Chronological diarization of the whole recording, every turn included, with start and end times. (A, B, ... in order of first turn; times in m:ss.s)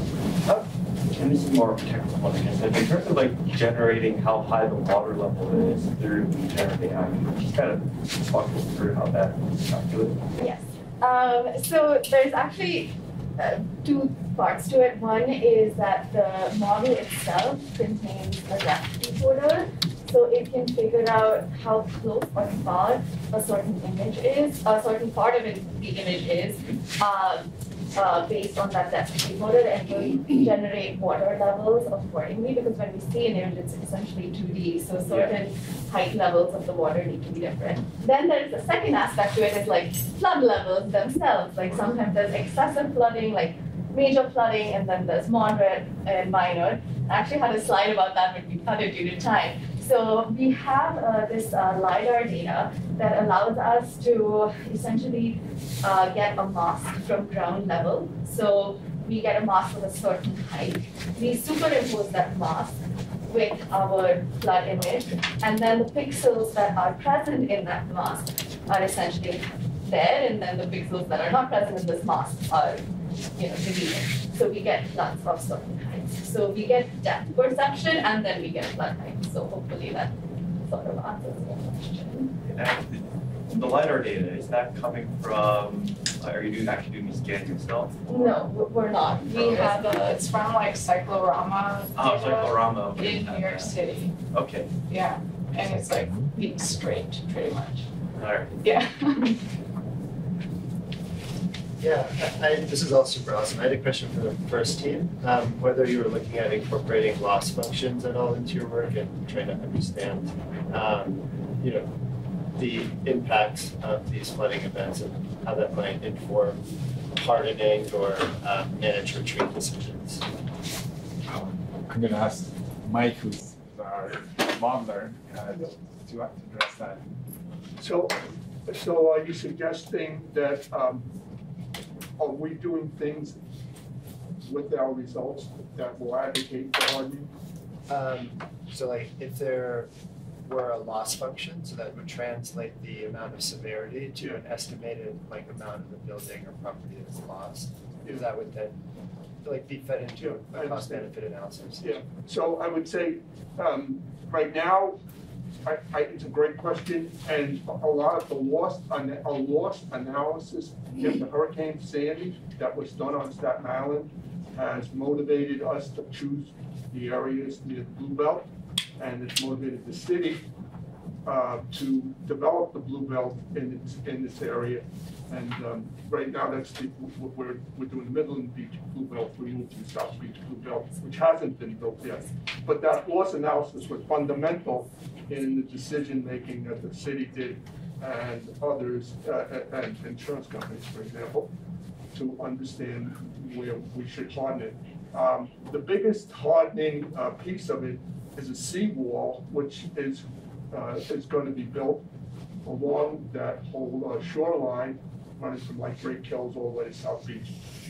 0:00.4-0:10.2 A
0:10.4-1:20.1 B
0:35.1-0:35.3 A
1:20.7-1:22.3 B
1:22.4-1:28.5 A
1:28.1-1:30.1 B
1:29.3-1:29.7 A
1:29.4-1:34.1 C
1:31.9-1:34.7 A
1:34.9-1:37.9 C
1:38.1-1:38.7 A
1:38.6-1:39.4 C
1:41.8-1:51.9 D
1:52.6-1:56.6 D
1:57.1-2:00.2 D
2:01.3-2:07.0 E
2:07.8-2:11.1 F
2:12.2-2:13.4 F
2:14.4-2:17.3 F
2:17.9-2:19.9 D
2:20.4-2:28.8 D
2:24.2-2:24.4 F
2:29.4-2:32.1 D
2:30.2-2:31.1 F
2:31.8-2:35.0 F
2:35.6-2:50.4 F
2:51.2-3:11.5 F
3:12.1-3:22.0 F
3:22.6-3:27.5 F